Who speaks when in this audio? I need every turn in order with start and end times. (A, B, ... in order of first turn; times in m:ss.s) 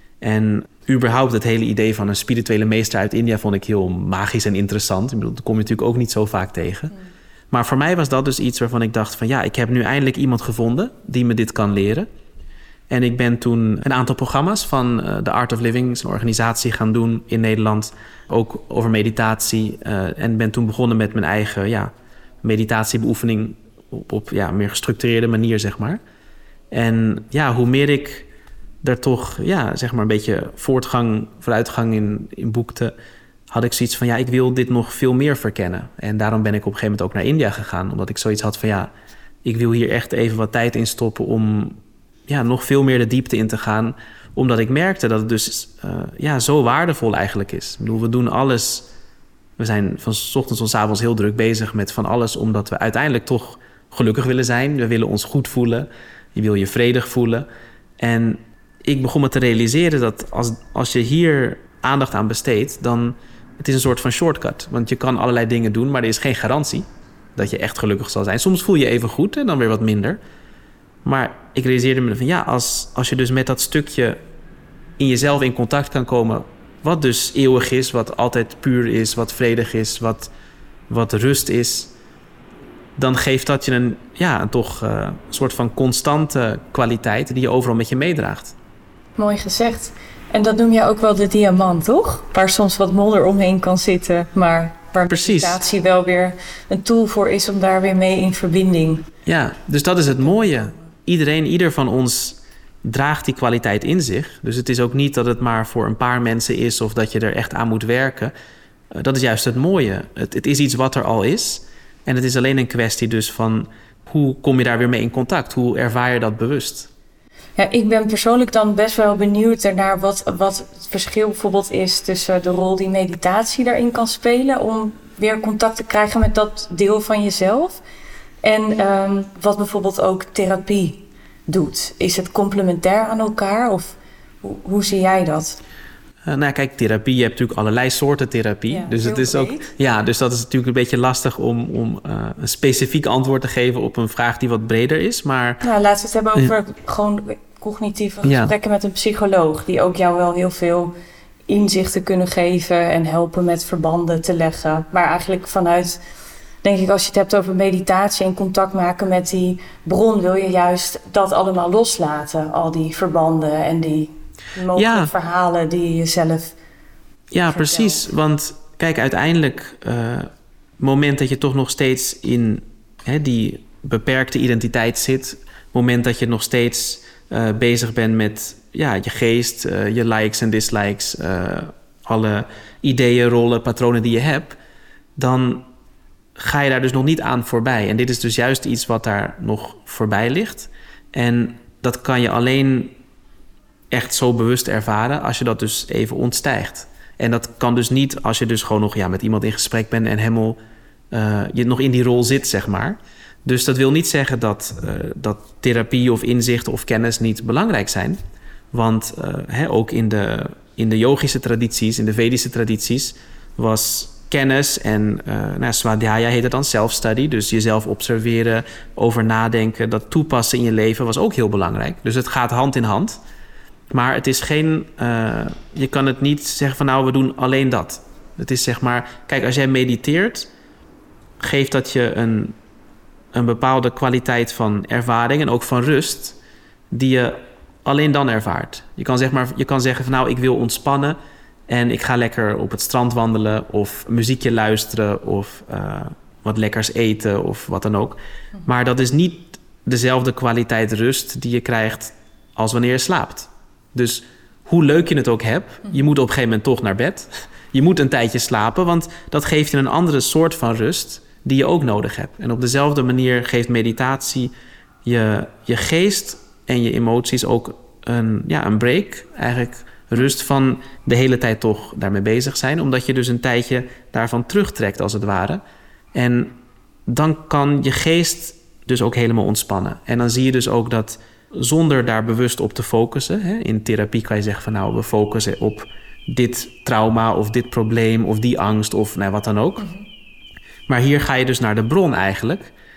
0:00.2-0:07.0 A
0:07.5-0:12.1 A
0:12.9-0:21.9 A
0:22.4-0:26.0 A
0:26.7-0:28.3 A
0:28.8-0:32.9 A
0:33.5-0:38.9 A
0:39.4-0:48.9 A
0:49.6-0:57.4 A
0:58.0-1:10.2 A
1:11.0-1:14.2 A
1:15.0-1:20.3 A
1:20.9-1:21.9 A
1:23.0-1:28.5 A
1:29.2-1:39.1 B
1:35.1-1:35.6 A
1:39.2-1:48.3 A
1:48.9-1:56.9 A
1:57.6-2:07.8 B
2:08.4-2:15.6 B
2:16.2-2:25.6 A
2:18.7-2:19.7 B
2:25.6-2:30.9 B
2:28.2-2:28.5 A
2:31.5-2:36.0 B
2:36.6-2:46.6 B
2:44.8-2:45.1 A
2:47.3-3:04.6 A
2:47.4-2:48.0 B
3:05.2-3:05.7 A
3:06.4-3:12.9 A
3:13.9-3:20.6 A
3:21.1-3:28.2 A
3:28.7-3:43.2 A
3:43.9-3:50.5 A
3:51.4-3:52.6 A
3:53.3-3:56.4 A
3:56.9-4:01.2 A
4:01.7-4:24.5 A
4:25.0-4:35.6 A
4:36.1-4:49.9 A
4:50.9-4:52.7 A